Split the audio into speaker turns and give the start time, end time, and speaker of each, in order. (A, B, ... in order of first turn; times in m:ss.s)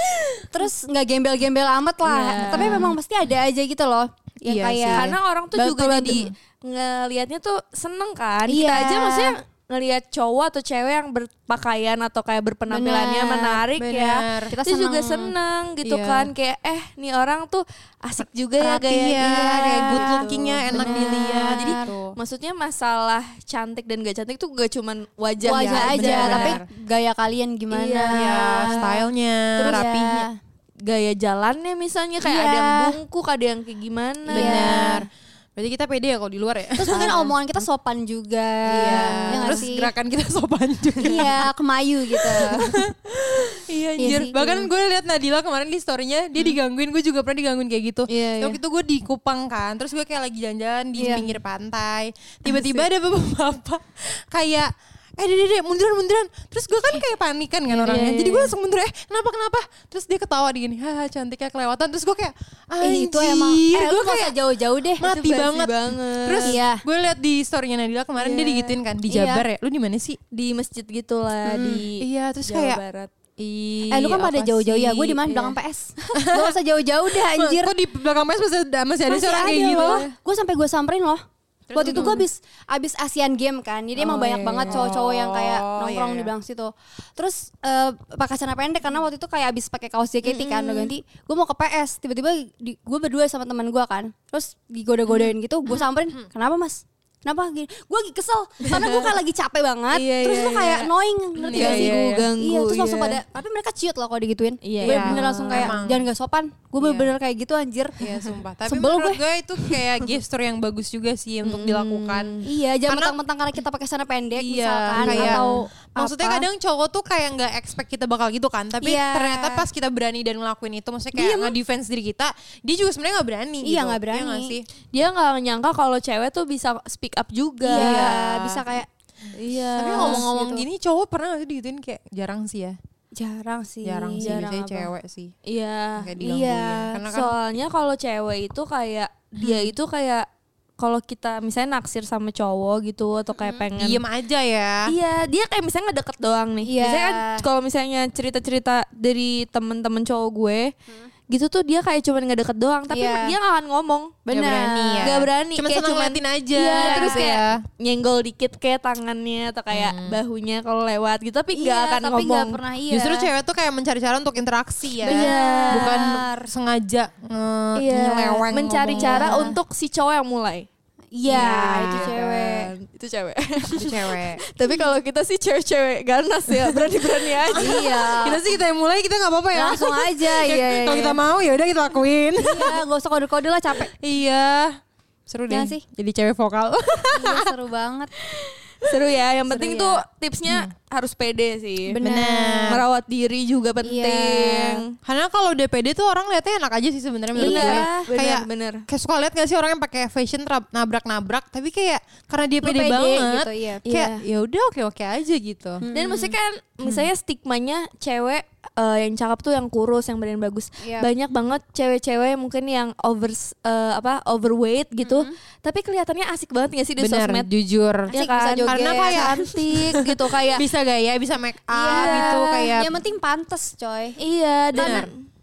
0:00.5-0:06.2 A
0:02.0-0:02.9 B
0:02.3-0:02.9 C
0:04.4-0:06.2 C
0:04.9-0:26.6 B
0:08.5-0:09.3 A
0:12.7-0:13.6 A
0:13.7-0:14.6 C
0:14.5-0:15.3 A
0:15.8-0:16.3 C
0:18.6-0:21.9 A
0:18.7-0:22.2 C
0:25.4-0:29.0 A
0:25.4-0:26.6 C
0:27.7-0:28.9 B
0:28.1-0:30.3 C
0:29.6-0:29.8 B
0:29.6-0:30.3 A
0:30.8-0:34.9 B
0:32.2-0:33.0 A
0:34.2-0:37.3 C
0:34.3-0:35.0 A
0:36.7-0:39.9 A
0:38.7-0:41.4 C
0:38.9-0:39.7 B
0:41.0-0:42.7 A
0:41.0-0:41.4 B
0:42.3-1:04.4 C
0:44.0-0:44.6 A
0:48.1-0:48.6 B
0:51.0-0:51.3 A
0:52.5-0:52.8 B
0:57.7-0:58.5 B
1:02.8-1:05.0 A
1:05.0-1:10.2 C
1:05.0-1:06.6 B
1:06.4-1:06.8 A
1:08.2-1:08.8 B
1:09.1-1:09.4 A
1:10.3-1:13.1 B
1:11.4-1:11.8 A
1:12.0-1:12.8 C
1:13.4-1:15.2 C
1:13.9-1:17.7 A
1:14.6-1:15.5 B
1:16.1-1:16.5 C
1:17.2-1:20.0 C
1:19.1-1:21.2 A
1:19.5-1:20.1 B
1:21.7-1:22.2 C
1:21.7-1:48.0 A
1:21.8-1:22.2 B
1:24.0-1:26.3 C
1:24.0-1:25.0 B
1:30.2-1:30.9 B
1:38.7-1:39.1 B
1:39.9-1:40.9 B
1:41.4-1:42.2 C
1:41.5-1:43.2 B
1:44.6-1:45.8 B
1:44.8-1:46.1 C
1:46.8-1:47.1 C
1:48.0-1:52.3 C
1:48.6-1:49.2 A
1:51.4-1:52.4 B
1:52.4-1:56.5 A
1:52.9-1:53.2 C
1:54.4-2:04.6 C
1:54.9-1:55.6 B
1:58.8-1:59.7 A
2:01.1-2:01.6 A
2:03.6-2:04.6 A
2:04.9-2:08.6 B
2:07.6-2:08.9 A
2:07.7-2:08.2 C
2:09.3-2:10.3 B
2:09.8-2:12.8 C
2:09.8-2:10.6 A
2:13.1-2:14.9 A
2:13.8-2:15.3 C
2:14.2-2:14.6 B
2:15.4-2:16.0 B
2:16.0-2:17.3 C
2:16.2-2:17.0 A
2:17.0-2:20.2 B
2:20.8-2:24.0 B
2:23.4-2:23.7 A
2:23.8-2:24.9 C
2:24.9-2:30.7 B
2:26.6-2:27.4 A
2:31.3-2:34.3 B
2:32.9-2:33.4 A
2:34.3-2:35.1 A
2:34.3-2:37.6 C
2:35.0-2:42.6 B
2:36.7-2:37.3 A
2:39.7-2:40.2 C
2:41.5-2:43.3 A
2:42.9-2:49.6 C
2:45.0-2:46.5 A
2:45.0-2:46.0 B
2:47.8-2:50.7 B
2:48.2-2:49.6 A
2:51.1-2:52.7 A
2:51.2-2:52.1 C
2:51.3-2:57.9 B
2:53.7-2:54.4 C
2:56.5-3:02.8 C
2:57.6-2:58.4 A
2:59.5-3:01.2 A
3:02.4-3:03.9 A
3:04.0-3:07.4 C
3:05.5-3:05.8 A
3:07.1-3:08.1 A
3:08.4-3:12.0 B
3:09.5-3:09.9 A
3:09.6-3:09.9 C
3:11.8-3:12.7 A
3:12.0-3:12.8 C
3:12.7-3:14.9 B
3:13.8-3:14.8 A
3:15.0-3:25.8 C
3:17.3-3:18.1 A
3:17.3-3:18.8 B
3:22.6-3:23.8 A
3:23.8-3:24.2 B
3:25.8-3:26.4 A
3:25.9-3:37.5 B
3:30.8-3:31.1 A
3:35.0-3:35.3 A
3:37.0-3:43.0 C
3:38.1-3:39.4 A
3:38.1-3:40.6 B
3:41.7-3:44.2 A
3:41.8-3:42.6 B
3:44.2-3:45.1 B
3:44.7-3:45.0 A
3:44.7-3:45.1 C